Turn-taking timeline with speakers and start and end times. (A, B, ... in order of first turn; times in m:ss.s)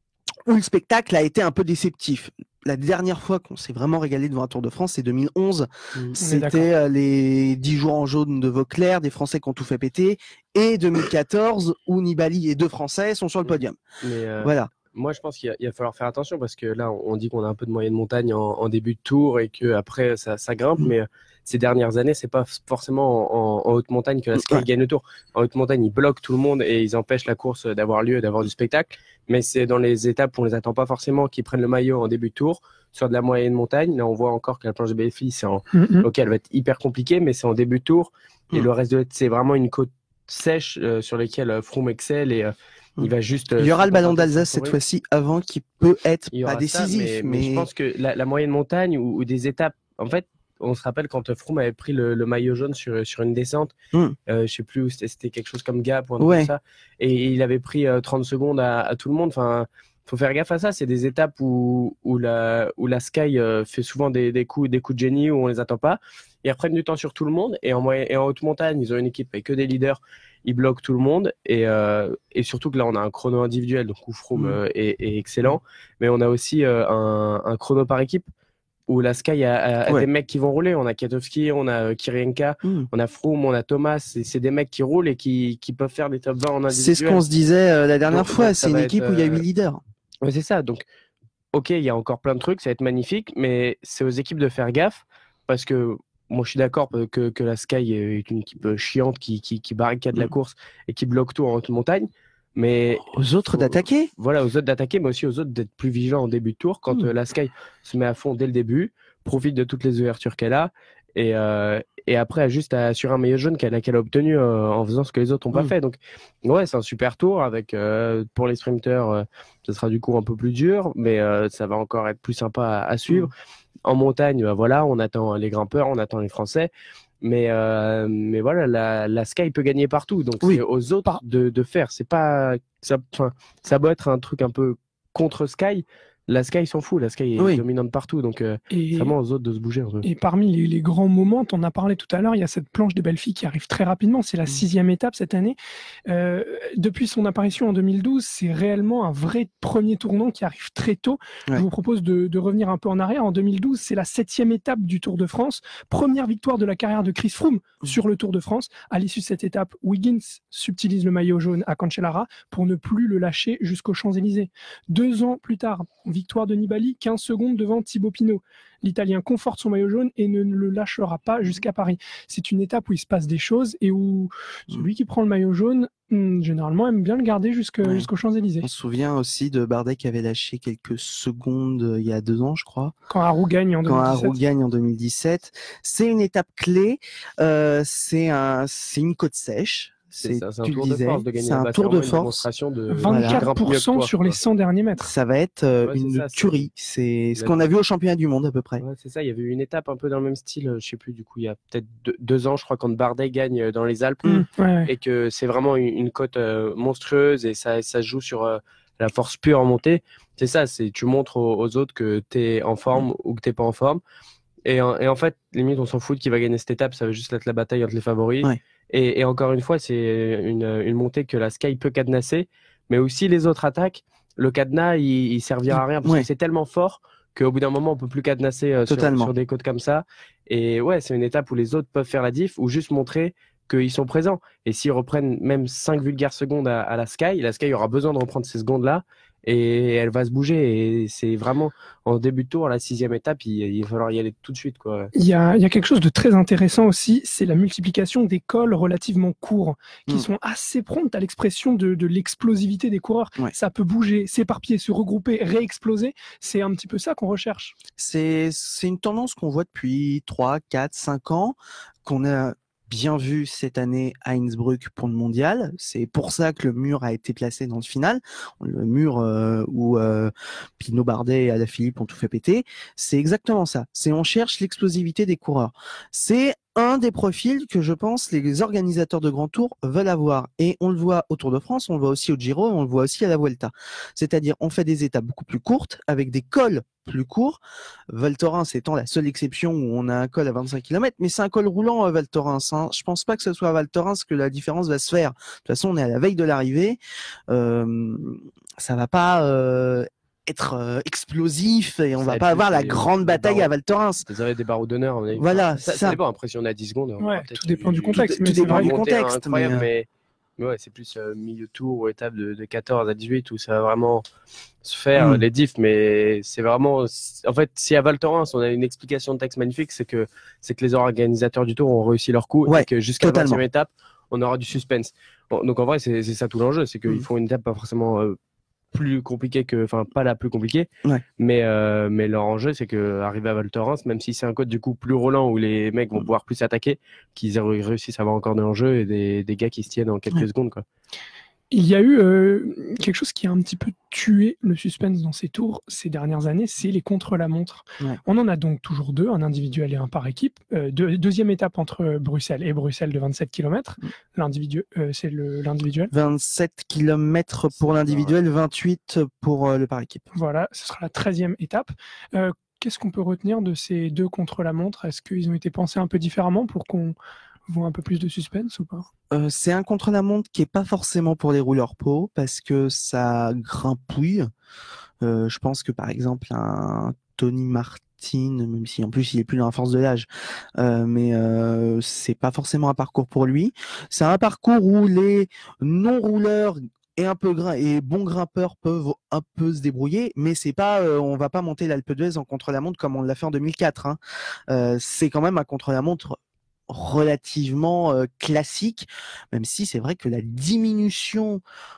0:00.5-0:13.8 A
0:06.2-0:06.7 B
0:14.0-0:44.8 C
0:14.4-0:14.7 A
0:24.3-0:24.6 A
0:35.7-0:36.1 B
0:43.0-0:47.7 A
0:46.3-0:53.7 C
0:54.3-1:18.2 C
0:56.2-0:56.5 A
1:18.9-1:27.2 C
1:26.7-1:29.8 A
1:28.1-1:29.4 C
1:30.2-1:30.8 C
1:31.5-2:03.3 C
1:43.0-1:44.1 A
2:03.8-2:06.7 C
2:07.2-2:20.0 C
2:18.7-2:19.1 B
2:20.0-2:58.7 B
2:57.8-2:58.1 A
2:58.6-3:02.9 A
3:03.1-3:04.4 B
3:03.8-3:12.4 A
3:10.2-3:14.4 C
3:12.9-3:15.1 B
3:13.0-3:13.5 A
3:15.0-3:18.8 A
3:15.8-3:16.6 C
3:18.8-3:24.3 C
3:24.3-3:24.9 B
3:24.8-3:34.0 C
3:34.6-4:05.1 C
3:45.7-3:46.2 A
3:48.9-3:49.3 A
4:05.1-4:17.8 B
4:18.0-4:47.6 A
4:48.1-4:57.0 A
4:57.5-5:04.2 A
5:02.2-5:03.7 C
5:04.2-5:14.2 C
5:05.4-5:06.2 A
5:07.2-5:08.9 B
5:08.1-5:09.8 A
5:14.8-5:28.4 C
5:15.2-5:15.4 A
5:22.6-5:23.6 A
5:28.9-5:40.8 C
5:41.7-5:56.1 B
5:56.1-6:00.2 A
5:57.8-5:58.3 C
6:00.3-6:07.1 B
6:07.7-6:09.1 B
6:09.3-6:14.5 A
6:15.2-6:34.2 A
6:34.7-6:41.6 A